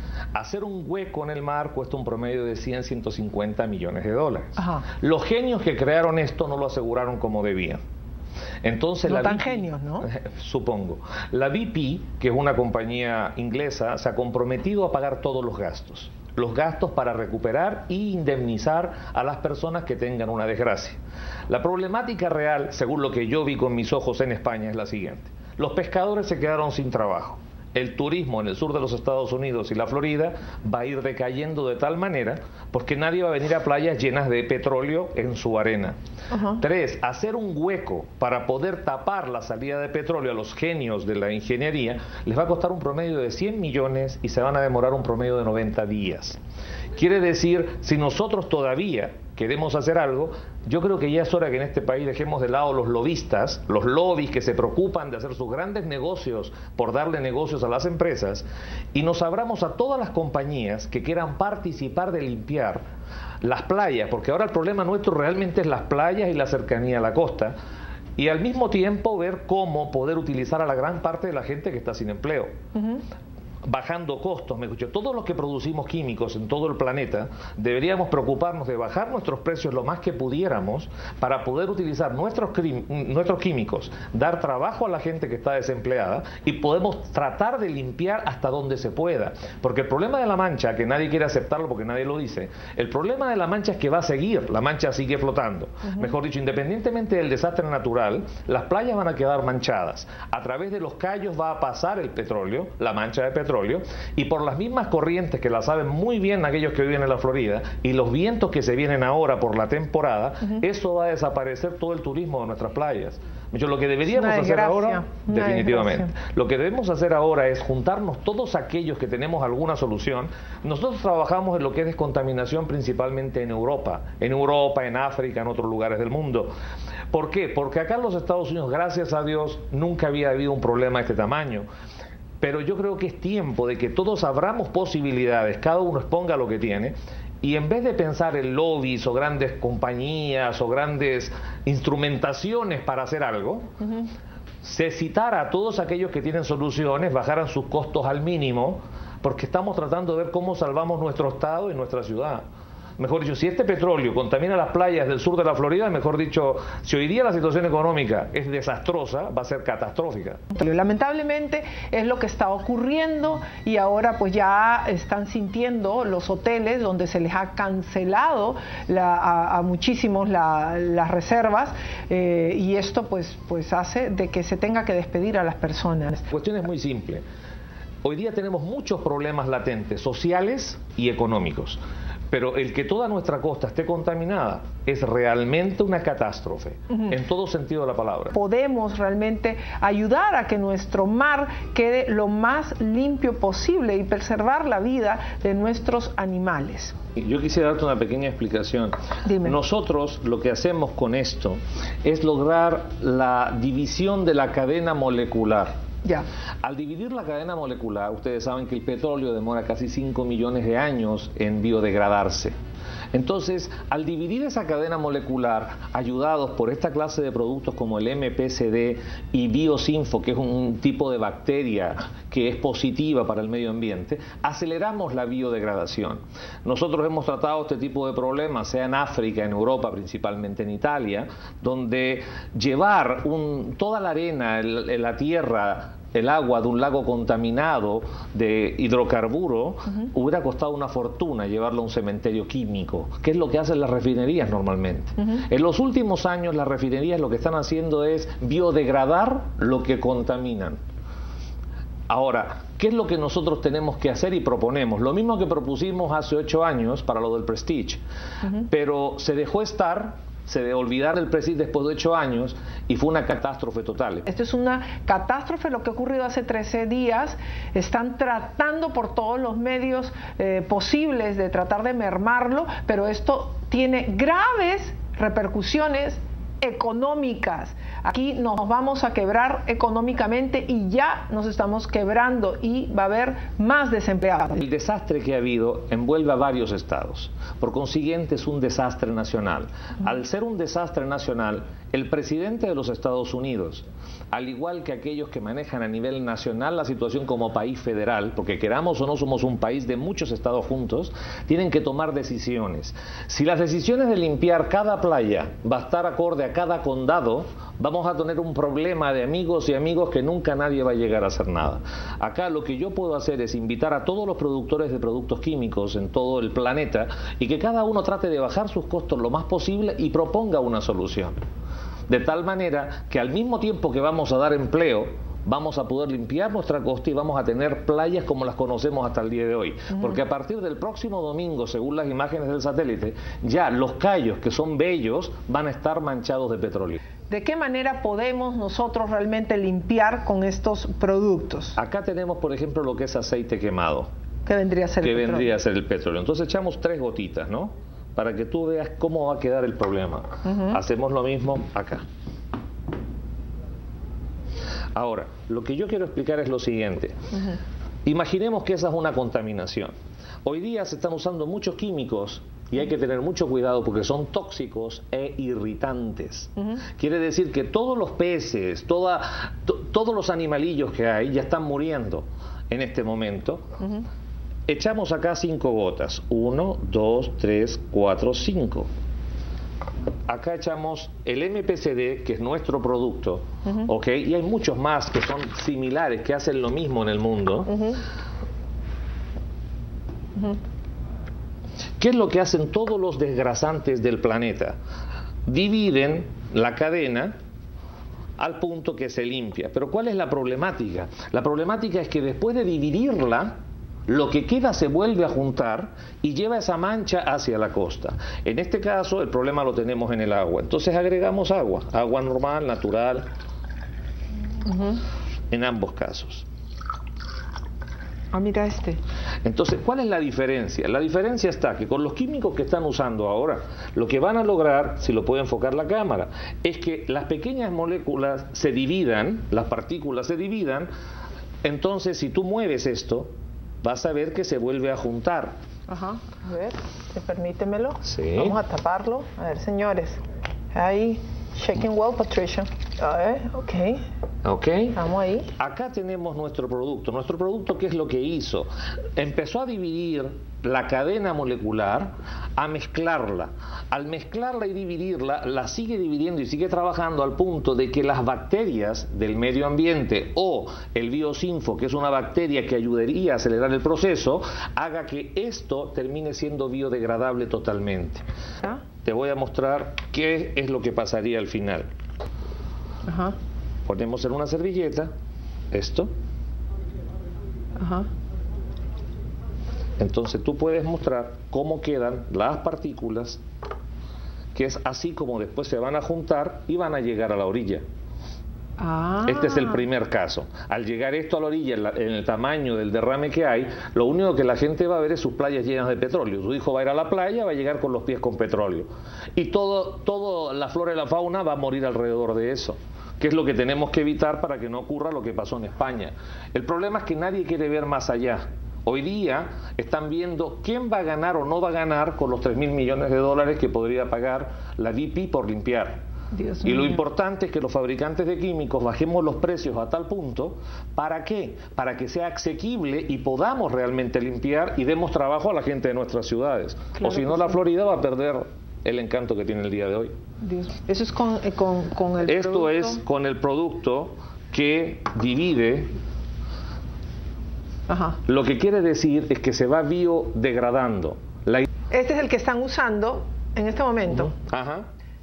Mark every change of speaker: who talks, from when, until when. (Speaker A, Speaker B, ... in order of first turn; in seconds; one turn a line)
Speaker A: 0.3-7.8
Speaker B: 4.6-4.8
Speaker A: 8.6-36.0
Speaker B: 9.1-10.1
Speaker B: 36.3-36.6
Speaker A: 36.6-46.4
Speaker A: 47.0-62.8
Speaker A: 63.4-67.5
Speaker A: 68.2-72.5
Speaker B: 72.8-73.0
Speaker A: 73.7-126.5
Speaker B: 114.1-116.1
Speaker A: 127.1-131.7
Speaker A: 132.4-143.7
Speaker A: 144.6-152.4
Speaker A: 153.0-160.4
Speaker B: 160.5-176.3
Speaker A: 176.3-177.2
Speaker A: 178.0-188.3
Speaker B: 188.3-196.9
Speaker A: 197.2-205.7
Speaker B: 199.2-199.6
Speaker A: 206.6-212.5
Speaker A: 213.1-250.8
Speaker A: 252.1-258.0
Speaker A: 258.6-264.3
Speaker B: 264.3-284.6
Speaker A: 284.6-321.4
Speaker A: 322.1-337.0
Speaker B: 329.9-330.2
Speaker B: 337.3-341.8
Speaker A: 341.8-344.1
Speaker B: 344.5-345.5
Speaker A: 345.0-352.1
Speaker B: 350.4-350.8
Speaker A: 354.9-357.2
Speaker A: 358.1-359.9
Speaker A: 360.4-373.7
Speaker A: 374.7-378.9
Speaker A: 380.3-388.0
Speaker A: 392.0-394.8
Speaker A: 395.5-397.3
Speaker A: 398.4-413.2
Speaker B: 414.7-415.0
Speaker A: 415.5-416.5
Speaker B: 418.3-419.0
Speaker A: 419.4-430.9
Speaker A: 431.6-435.6
Speaker B: 435.9-440.2
Speaker A: 438.0-438.6
Speaker B: 440.7-444.0
Speaker A: 444.4-445.0
Speaker B: 444.9-445.5
Speaker A: 445.6-468.2
Speaker A: 469.0-471.9
Speaker B: 473.1-473.4
Speaker A: 473.9-475.1
Speaker A: 475.7-476.1
Speaker B: 477.8-478.1
Speaker A: 480.0-483.4
Speaker A: 484.6-487.8
Speaker B: 488.8-489.8
Speaker A: 489.2-516.0
Speaker B: 516.3-517.0
Speaker A: 516.6-530.1
Speaker B: 527.0-527.5
Speaker B: 530.4-533.0
Speaker A: 532.2-535.9
Speaker B: 537.9-538.2
Speaker A: 538.3-541.7
Speaker B: 541.9-544.3
Speaker A: 544.2-544.9